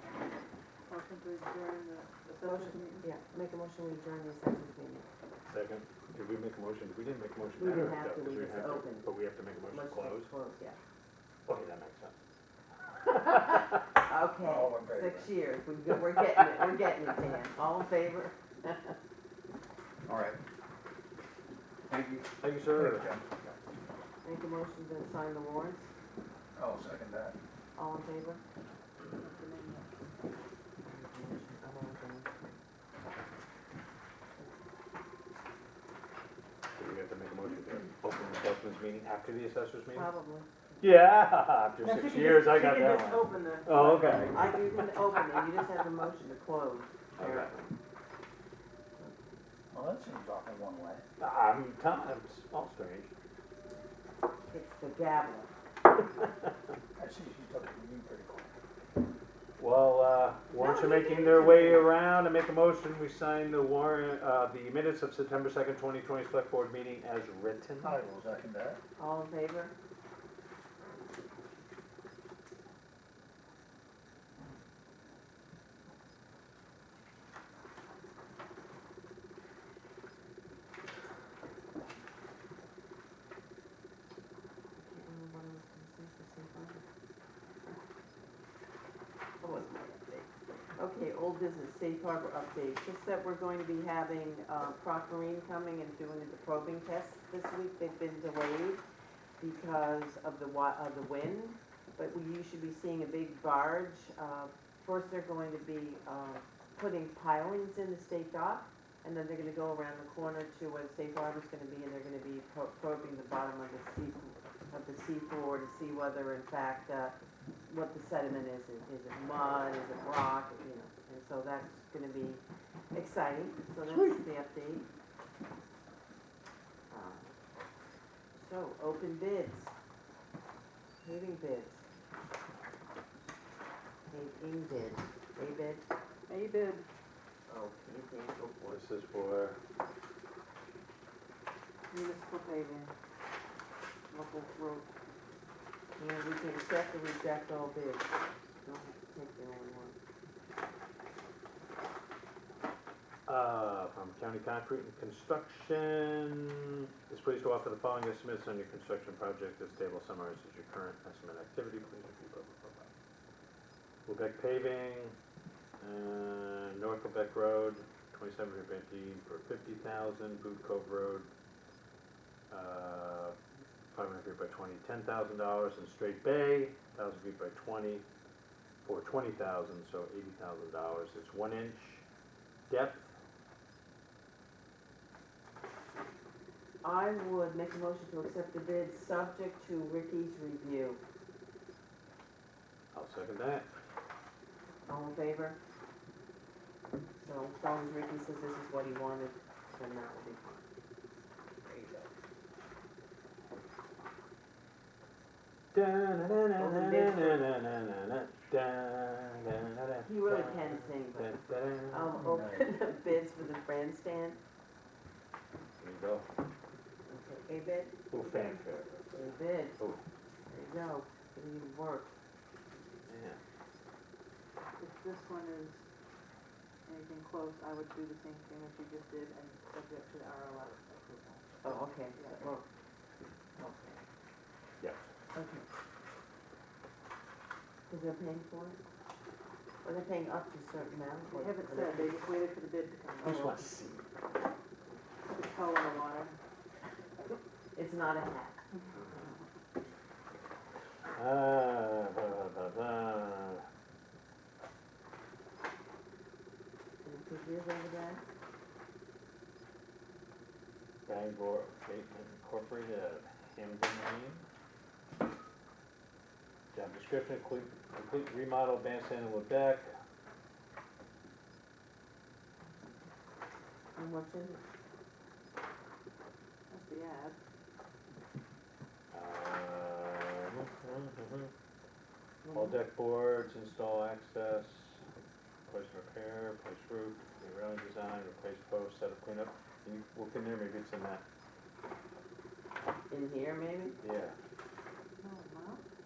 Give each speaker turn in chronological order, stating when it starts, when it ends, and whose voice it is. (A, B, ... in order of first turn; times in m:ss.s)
0:00.9-0:03.0 A
0:02.4-0:05.0 B
0:05.5-0:10.3 C
0:07.6-0:09.1 B
0:09.7-0:10.8 B
0:11.5-0:12.2 C
0:13.0-0:13.8 C
0:14.0-0:19.0 B
0:14.4-0:15.3 D
0:20.0-0:20.4 D
0:21.9-0:23.6 D
0:22.4-0:23.2 C
0:24.2-0:25.9 B
0:26.6-0:27.4 D
0:27.8-0:28.4 B
0:29.1-0:29.9 A
0:30.8-0:32.5 B
0:36.8-0:40.1 C
0:39.9-0:40.9 B
0:40.8-0:44.9 C
0:41.8-0:44.2 A
0:44.2-0:47.7 B
0:47.2-0:47.6 C
0:49.0-0:49.3 B
0:49.7-0:51.0 D
0:51.2-0:53.1 C
0:54.5-0:55.5 B
0:57.0-0:58.5 D
0:59.6-1:08.0 C
1:00.6-1:01.9 B
1:07.8-1:08.8 D
1:09.0-1:09.7 B
1:24.8-1:26.8 B
1:29.4-1:38.8 B
1:39.4-2:04.9 B
2:03.9-2:04.2 C
2:06.9-2:07.3 B
2:08.4-2:09.7 B
2:11.0-2:11.8 B
2:14.1-2:15.8 B
2:16.3-2:16.8 A
2:17.5-2:18.7 B
2:18.6-2:19.6 C
2:21.9-2:22.9 A
2:24.1-2:24.9 A
2:26.0-2:30.0 B
2:33.3-2:36.4 C
2:37.1-2:42.9 C
2:44.0-2:45.2 C
2:45.8-2:51.3 C
2:52.5-2:53.4 C
2:53.9-2:58.0 C
2:58.8-3:02.0 C
3:02.7-3:03.1 C
3:06.8-3:11.0 B
3:12.9-3:13.7 C
3:14.8-3:15.6 B
3:17.2-3:20.6 B
3:21.6-3:22.1 B
3:25.7-3:32.2 C
3:26.5-3:27.5 B
3:30.0-3:34.4 B
3:32.2-3:32.6 D
3:35.8-3:36.3 C
3:37.1-3:38.6 B
3:38.1-3:39.2 C
3:39.1-3:39.8 B
3:40.5-3:42.1 B
3:43.1-3:43.4 C
3:44.8-3:45.8 A
3:46.8-3:52.5 A
3:51.6-3:52.6 B
3:53.6-3:54.0 B
3:54.8-3:55.1 C
3:55.3-3:55.7 B
3:57.9-3:58.8 B
3:59.8-4:02.2 B
4:01.3-4:03.5 A
4:03.2-4:04.1 C
4:05.3-4:06.4 A
4:07.7-4:08.6 B
4:11.1-4:13.6 C
4:17.0-4:18.2 B
4:21.1-4:24.4 C
4:26.7-4:29.9 C
4:33.9-4:34.6 B
4:36.7-4:37.4 A
4:39.1-4:41.5 C
4:42.4-4:42.8 B
4:42.5-4:45.0 C
4:45.7-4:51.2 C
4:53.1-4:54.0 B
4:54.0-4:54.4 C
4:55.2-4:55.8 A